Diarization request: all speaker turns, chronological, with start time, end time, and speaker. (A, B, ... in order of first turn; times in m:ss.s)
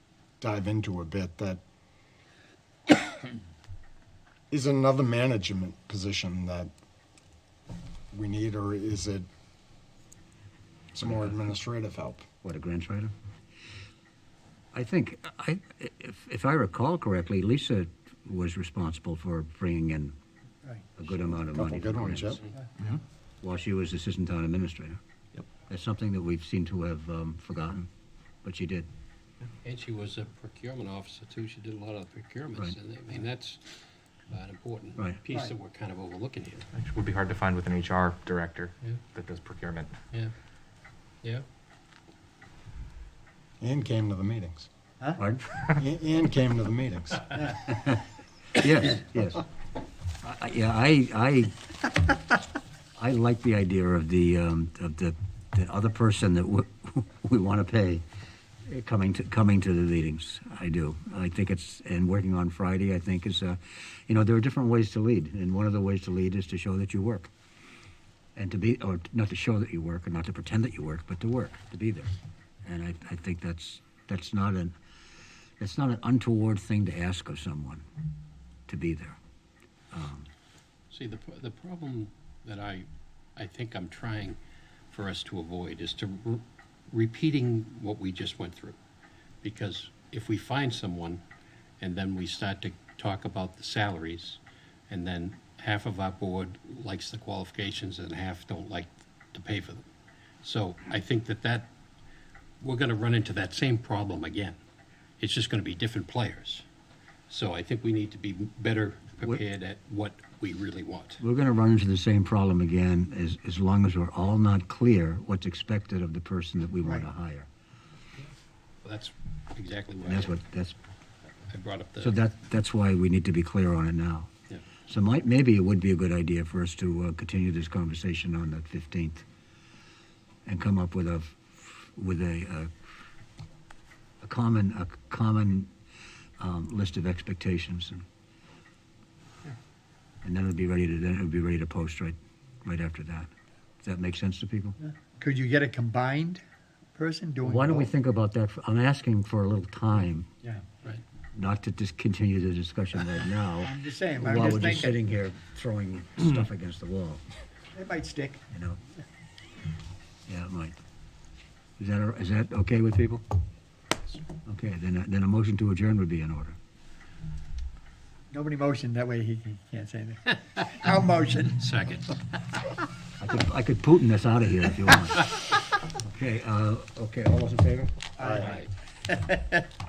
0:00.4-0:01.6 A
0:04.5-0:06.7 A
0:08.1-0:09.3 A
0:10.9-0:12.2 A
0:11.0-0:11.3 B
0:12.4-0:13.1 B
0:14.7-0:20.1 B
0:21.0-0:22.4 B
0:21.5-0:22.4 A
0:23.4-0:25.0 B
0:25.7-0:27.9 B
0:28.4-0:28.9 B
0:29.6-0:33.8 C
0:34.3-0:36.7 C
0:36.7-0:39.9 D
0:43.6-0:44.7 A
0:45.2-0:45.5 B
0:45.7-0:47.4 A
0:47.7-0:48.0 B
0:48.5-0:49.5 B
0:50.2-0:51.8 B
0:53.0-0:58.0 B
0:58.6-1:07.3 B
1:08.4-1:12.1 B
1:12.6-1:14.8 B
1:15.6-1:17.8 B
1:18.7-1:19.2 B
1:19.9-1:20.3 B
1:20.9-1:24.4 C
1:24.9-1:28.8 C
1:29.4-1:31.2 C
1:31.8-1:39.9 C
1:40.4-1:41.7 C
1:42.6-1:44.6 C
1:45.2-1:46.6 C
1:47.3-1:51.2 C
1:51.2-1:57.5 B
1:58.8-2:00.4 C
2:00.0-2:00.8 B
2:01.5-2:02.1 C
2:02.0-2:04.3 B
2:04.9-2:09.2 B
2:10.4-2:12.7 B
2:14.2-2:15.7 B
2:16.4-2:18.0 B
2:20.2-2:23.3 B
2:23.8-2:24.8 B
2:24.8-2:26.4 E
2:26.9-2:27.9 E
2:27.4-2:30.3 B
2:31.3-2:37.2 B
2:33.6-2:34.9 E
2:37.7-2:38.4 E
2:38.5-2:38.8 B
2:40.3-2:40.8 B
2:41.8-2:43.2 B
2:44.4-2:46.6 B
2:48.3-2:51.6 E
2:51.6-2:52.2 C
2:53.2-2:57.9 B
2:58.2-2:59.6 E
2:58.4-2:58.7 C